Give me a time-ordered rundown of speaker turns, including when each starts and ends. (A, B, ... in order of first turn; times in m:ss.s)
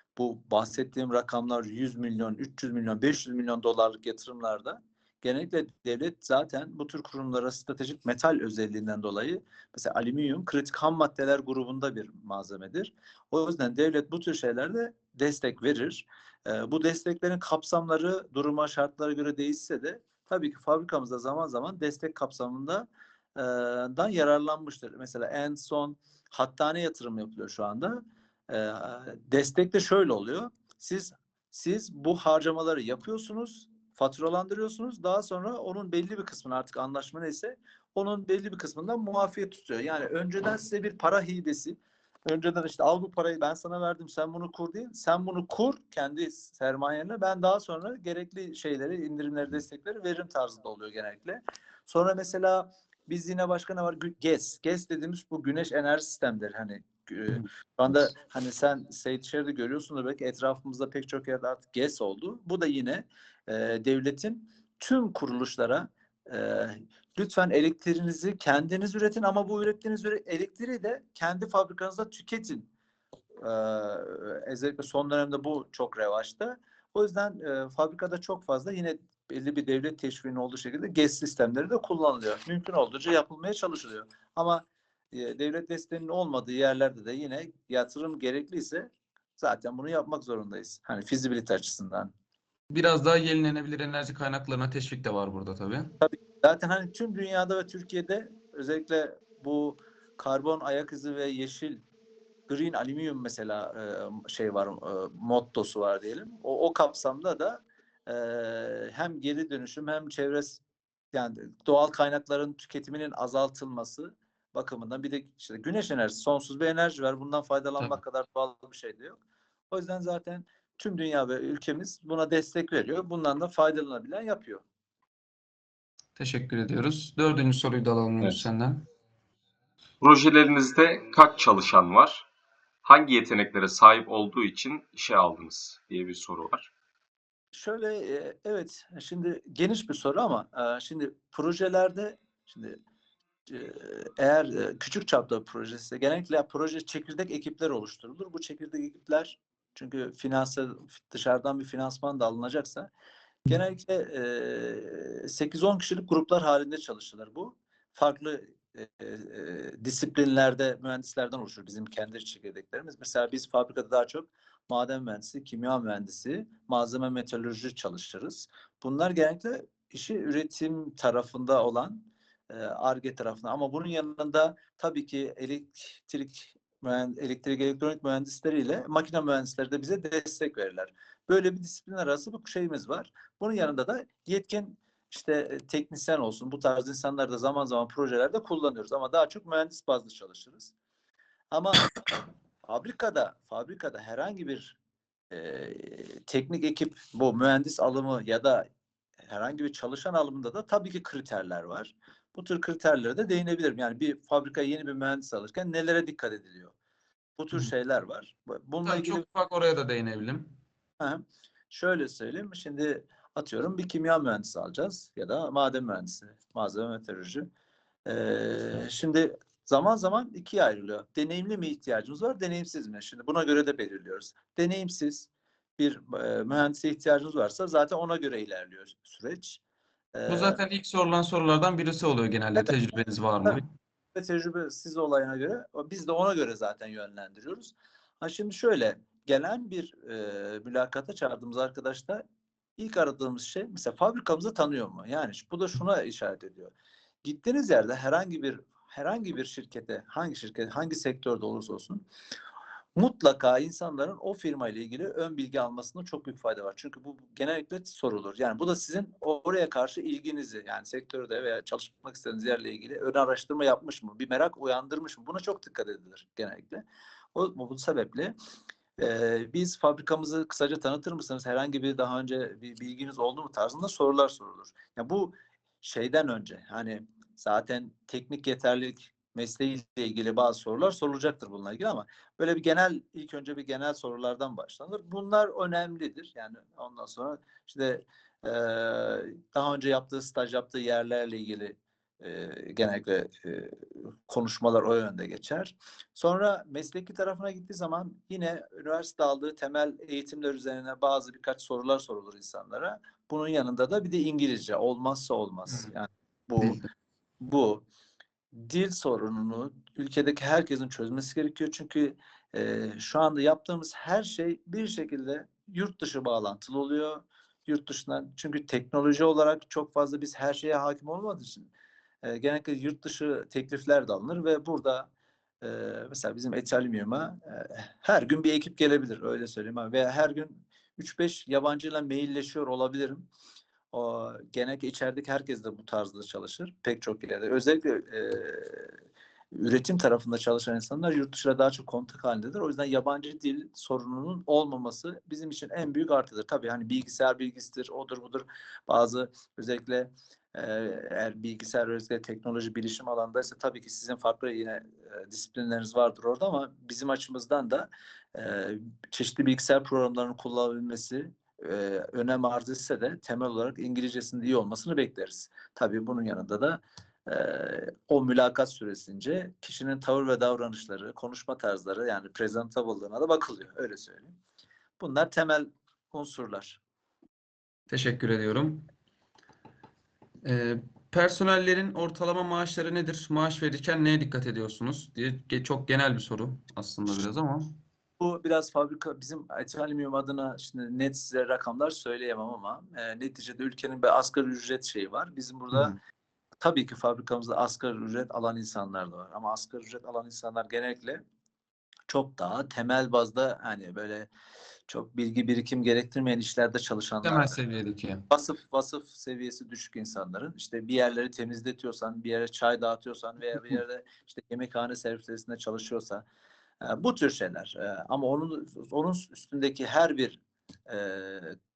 0:00.2-1:12.7 A
1:13.4-1:32.1 A
1:32.7-1:35.9 B
1:36.0-1:41.8 A
1:42.5-1:50.6 A
1:51.1-2:04.6 A
2:06.2-2:08.8 B
2:10.0-2:12.3 C
2:12.8-2:16.7 C
2:17.5-2:22.8 A
2:23.5-2:32.9 A
2:33.4-3:10.7 A
3:11.5-3:11.9 A
3:12.6-3:14.8 A
3:15.3-3:18.6 A
3:19.2-3:26.7 A
3:27.4-3:29.2 A
3:28.8-3:30.5 B
3:31.0-3:37.5 A
3:38.0-3:49.6 A
3:50.1-3:50.6 A
3:50.3-3:53.7 B
3:54.1-4:02.2 A
4:02.8-4:06.7 A
4:07.2-4:12.0 A
4:13.0-4:28.3 A
4:29.0-5:06.8 A
5:07.4-5:07.8 A
5:08.5-5:21.7 A
5:22.2-5:25.1 A
5:25.6-5:33.3 A
5:33.9-5:39.0 A
5:39.5-6:14.4 A
6:15.0-6:16.8 A
6:17.9-6:18.9 B
6:20.4-6:27.8 B
6:28.2-6:35.9 A
6:35.7-6:36.0 B
6:36.6-6:41.2 A
6:42.1-6:44.3 A
6:44.9-6:47.6 A
6:47.2-6:48.3 B
6:48.3-6:56.2 A
6:56.8-7:01.6 A